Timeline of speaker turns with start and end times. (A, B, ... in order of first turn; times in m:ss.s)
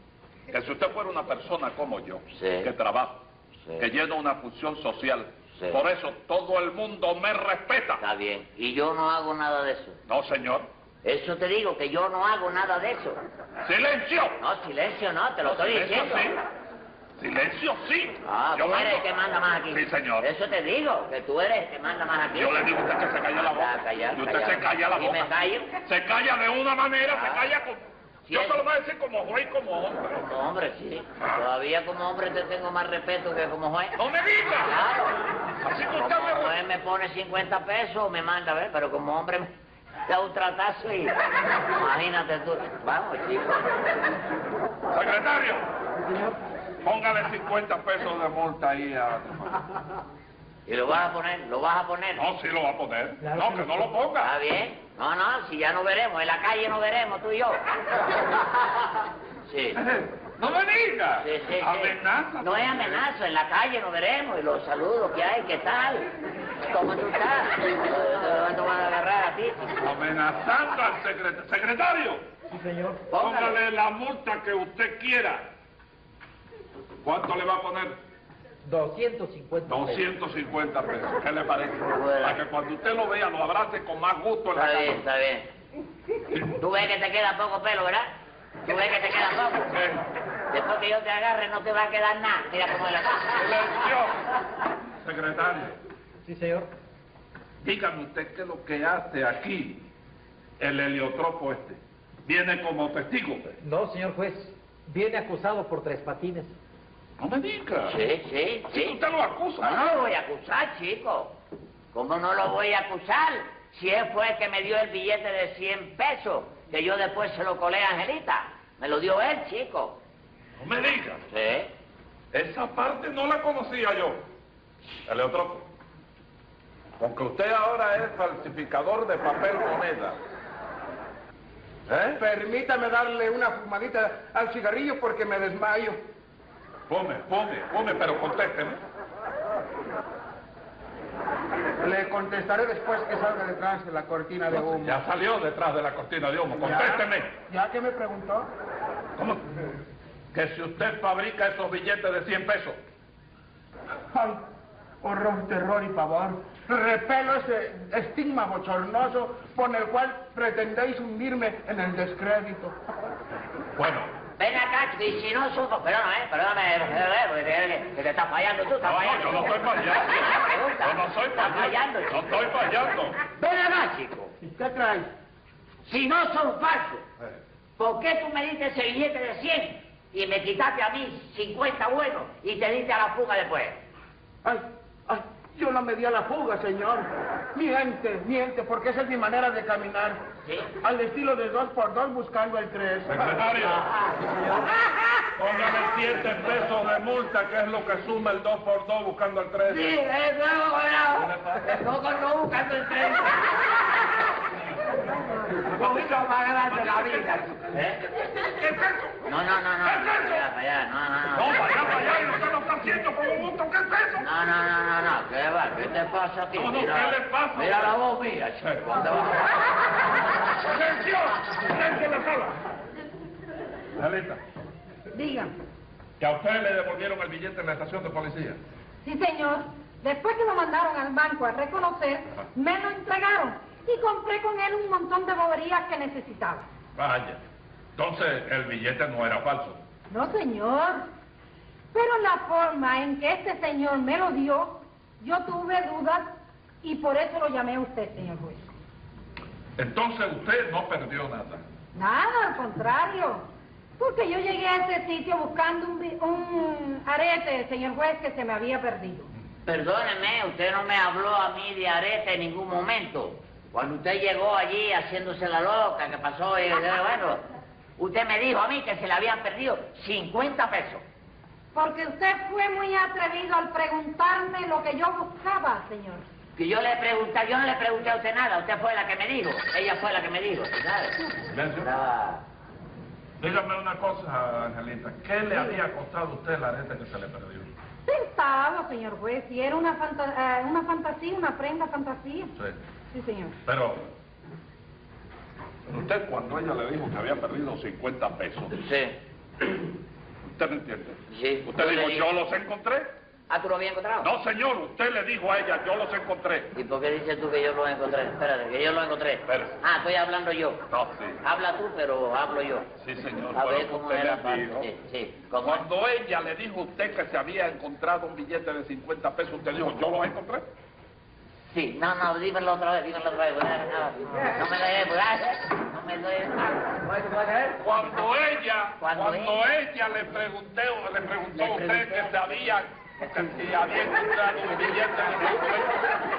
0:00.5-0:03.2 A
0:02.3-0:02.7 B
0:03.8-0:08.0 A
0:05.6-0:05.8 B
0:08.0-0:10.0 B
0:10.1-0:10.7 A
0:11.0-0:13.2 B
0:13.6-0:14.4 A
0:14.4-0:16.3 B
0:15.4-0:16.4 A
0:17.2-0:19.1 A
0:18.2-0:22.8 B
0:19.7-0:20.2 A
0:22.3-0:30.2 A
0:23.4-0:25.7 B
0:27.0-0:27.5 B
0:28.3-0:28.6 B
0:30.1-0:34.0 B
0:34.0-0:34.8 A
0:34.6-0:39.5 B
0:35.6-0:36.6 A
0:40.1-0:41.2 B
0:41.7-0:43.8 B
0:44.9-0:45.6 A
0:46.8-0:49.6 A
0:50.7-0:52.2 B
0:52.1-0:54.3 A
0:53.3-0:53.8 C
0:54.2-0:57.6 B
0:59.5-0:59.8 B
0:59.8-1:02.8 A
1:01.2-1:06.1 B
1:06.7-1:09.8 B
1:09.8-1:12.3 A
1:12.5-1:13.1 C
1:13.1-1:13.6 B
1:13.1-1:15.5 A
1:17.0-1:18.0 A
1:18.6-1:20.1 C
1:19.6-1:25.0 A
1:21.9-1:22.4 B
1:24.5-1:25.5 B
1:26.5-1:28.1 B
1:28.6-1:29.8 B
1:29.7-1:30.1 A
1:30.5-1:33.5 B
1:33.3-1:34.2 A
1:35.0-1:35.8 A
1:36.2-1:36.7 C
1:37.6-1:39.9 A
1:40.6-1:43.4 A
1:43.6-1:46.5 C
1:47.2-1:48.0 A
1:47.8-1:49.0 B
1:48.7-1:49.8 A
1:49.6-1:51.4 B
1:51.9-2:00.0 B
2:00.6-2:01.2 A
2:01.3-2:01.7 B
2:02.3-2:04.2 A
2:05.1-2:05.7 A
2:07.0-2:10.2 A
2:11.9-2:12.2 A
2:12.1-2:16.0 D
2:16.9-2:18.8 A
2:21.8-2:25.0 D
2:24.5-2:27.3 A
2:26.6-2:28.5 D
2:29.2-2:29.4 A
2:30.3-2:32.8 A
2:34.1-2:34.4 D
2:35.0-2:42.8 D
2:43.8-2:44.1 A
2:44.4-2:52.6 B
2:48.8-2:53.2 A
2:53.3-2:54.4 B
2:54.4-2:55.1 D
2:55.9-2:57.1 B
2:57.8-3:03.8 B
3:04.4-3:10.2 D
3:10.4-3:10.7 B
3:10.8-3:13.1 D
3:13.1-3:13.8 A
3:13.6-3:14.2 B
3:15.4-3:20.0 A
3:19.6-3:23.8 B
3:21.1-3:21.7 A
3:25.6-3:28.0 B
3:25.6-3:27.7 A
3:28.2-3:29.2 A
3:29.2-3:32.2 B
3:29.8-3:30.5 A
3:31.3-3:34.2 A
3:34.2-3:39.6 B
3:36.5-3:38.0 A
3:40.6-3:42.6 A
3:44.0-3:44.4 A
3:45.1-3:45.5 E
3:46.2-3:48.6 A
3:49.0-3:56.6 E
3:57.0-3:57.4 A
3:58.0-3:59.8 A
4:00.1-4:01.0 E
4:01.9-4:06.3 E
4:06.8-4:08.7 E
4:09.8-4:11.6 A
4:12.0-4:13.5 E
4:14.0-4:19.3 E
4:19.6-4:27.4 B
4:28.0-4:31.0 B
4:31.7-4:36.2 E
4:36.6-4:41.2 B
4:41.5-4:41.9 A
4:41.8-4:42.4 B
4:43.4-4:47.7 A
4:48.1-4:52.5 E
4:53.1-4:53.6 E
4:53.6-4:54.1 A
4:55.9-4:58.7 A
4:58.7-4:59.2 B
5:00.4-5:03.1 A
5:01.3-5:02.3 B
5:03.5-5:04.3 B
5:04.2-5:06.7 A
5:06.7-5:10.8 B
5:09.5-5:09.8 A
5:10.9-5:11.4 A
5:11.4-5:12.9 B
5:13.0-5:14.9 A
5:13.5-5:15.9 B
5:15.6-5:20.7 A
5:21.7-5:27.8 B
5:27.7-5:36.2 A
5:29.0-5:29.7 B
5:31.6-5:32.6 B
5:33.2-5:33.5 B